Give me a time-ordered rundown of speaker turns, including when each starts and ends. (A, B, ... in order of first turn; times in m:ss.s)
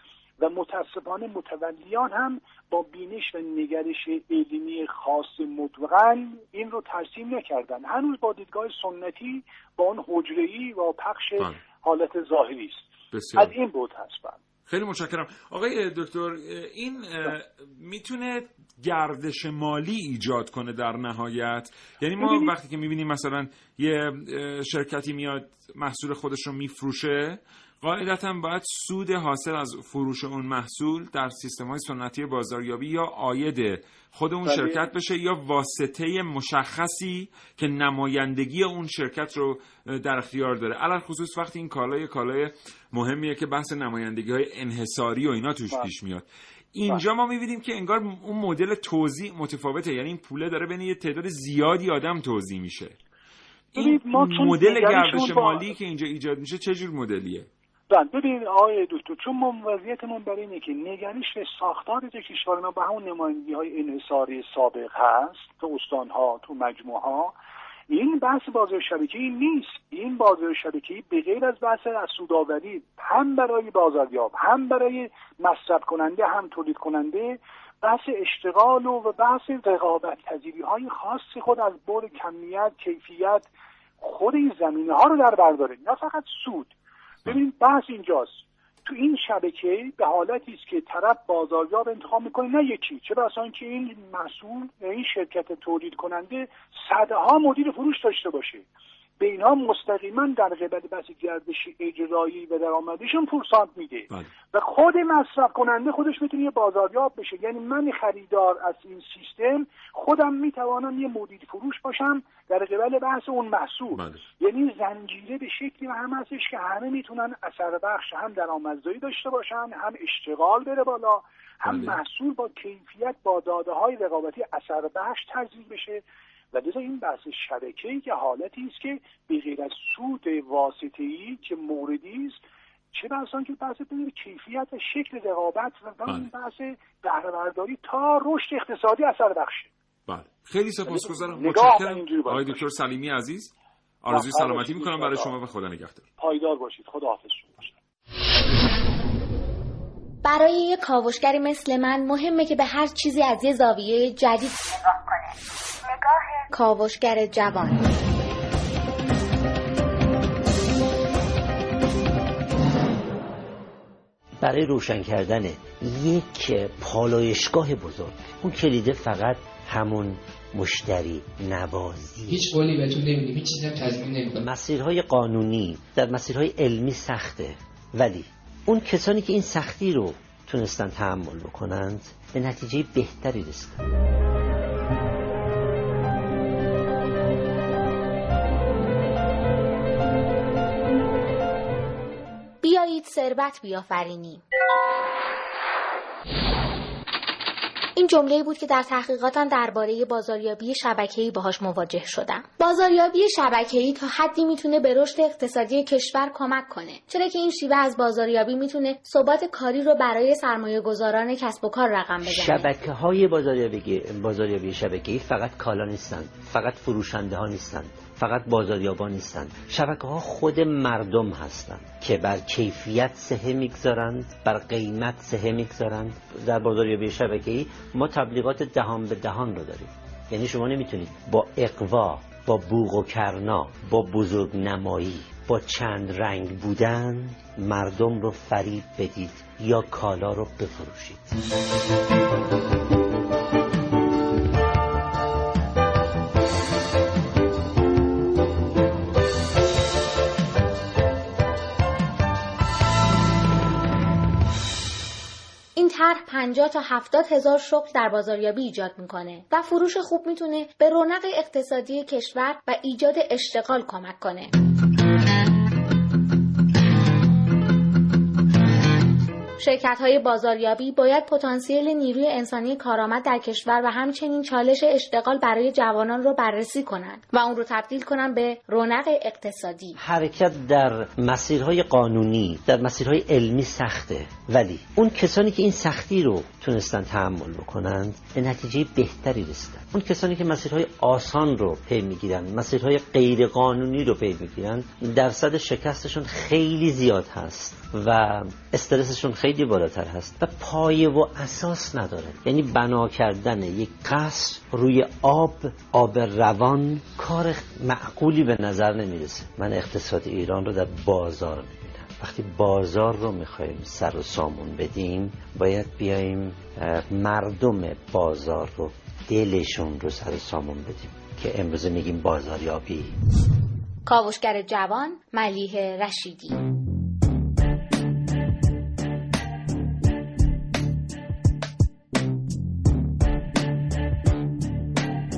0:00.4-0:14.4 A
0:11.4-0:11.6 B
0:13.1-0:13.5 B
0:14.7-0:53.0 B
0:22.2-0:22.5 A
0:34.4-0:34.8 A
0:53.7-0:57.5 B
0:53.8-0:55.7 A
0:57.9-1:07.3 A
1:07.9-1:26.7 A
1:27.2-1:38.6 A
1:39.2-2:12.4 A
1:53.9-1:54.2 B
2:01.6-2:02.0 B
2:12.9-2:19.7 A
2:20.1-2:26.1 B
2:20.8-2:22.6 A
2:24.1-2:25.3 A
2:26.2-2:27.8 A
2:30.2-2:34.6 C
2:36.5-2:37.8 C
2:44.4-2:52.5 D
2:52.3-2:54.4 E
2:54.3-3:03.8 D
3:12.6-3:14.4 C
3:18.0-3:32.7 C
3:32.2-4:01.3 D
4:15.8-4:24.5 C
4:29.6-4:40.0 C
4:40.0-5:23.1 D
5:24.0-5:26.6 C